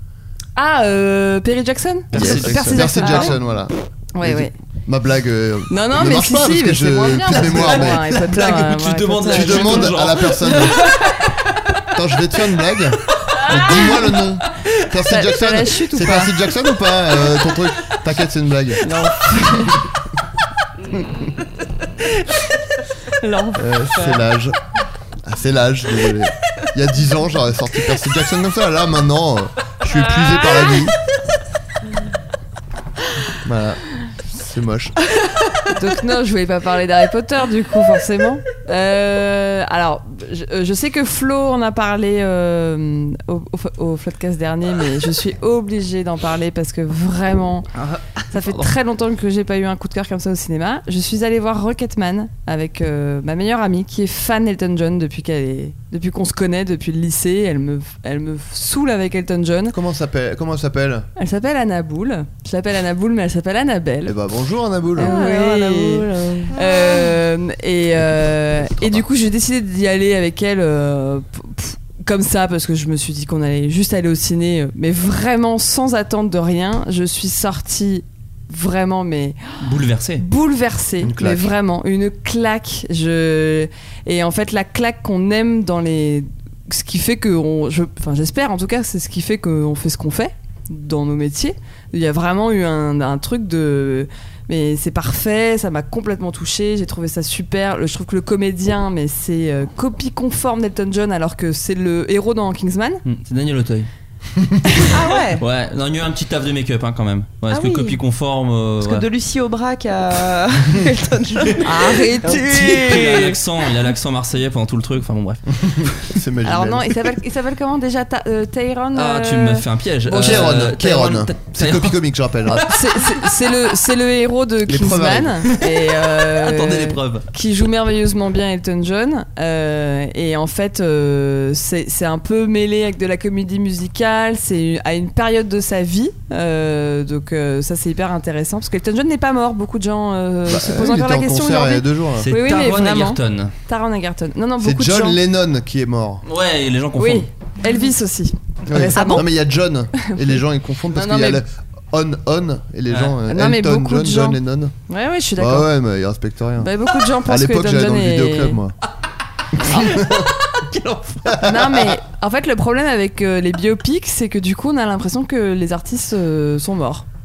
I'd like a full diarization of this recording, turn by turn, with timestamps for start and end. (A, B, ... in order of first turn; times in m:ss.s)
0:00.6-0:03.4 A
0:02.1-0:03.0 B
0:02.1-0:08.2 C
0:04.1-0:04.5 A
0:05.7-0:09.9 A
0:07.4-0:10.8 B
0:09.3-0:10.9 C
0:11.9-0:18.8 C
0:15.1-0:16.4 A
0:18.8-0:19.8 A
0:23.2-0:24.2 A
0:23.6-0:24.6 C
0:25.2-0:31.0 C
0:33.4-0:35.0 C
0:35.7-0:47.7 A
0:47.8-0:48.7 B
0:48.3-0:59.8 A
0:59.7-1:01.1 C
1:01.2-1:04.2 A
1:04.0-1:05.2 C
1:05.0-1:19.5 A
1:05.0-1:06.6 D
1:08.8-1:09.0 C
1:19.6-1:20.2 B
1:20.2-1:43.0 A
1:21.0-1:21.5 C
1:43.0-1:43.9 B
1:44.9-1:45.4 D
1:45.4-1:49.1 B
1:47.5-1:48.0 D
1:48.8-1:53.4 D
1:51.6-1:53.3 A
1:52.3-1:56.1 B
1:55.6-1:57.0 C
1:56.4-2:00.5 A
1:59.0-2:02.0 B
2:00.1-2:02.7 C
2:02.6-2:25.2 A
2:04.7-2:05.5 C
2:05.6-2:07.2 B
2:20.5-2:22.3 C
2:22.2-2:23.5 B
2:24.6-2:26.2 C
2:26.3-2:27.3 B
2:27.0-2:29.3 A
2:28.7-2:34.7 C
2:28.9-2:29.2 D
2:30.0-2:30.4 A
2:30.9-2:31.4 A
2:32.9-2:33.2 B
2:33.3-2:35.7 A
2:35.4-2:36.7 C
2:36.6-2:38.6 A
2:37.2-2:38.7 C
2:39.6-2:40.3 C
2:39.7-2:41.3 B
2:41.3-2:42.0 C
2:41.4-2:47.1 A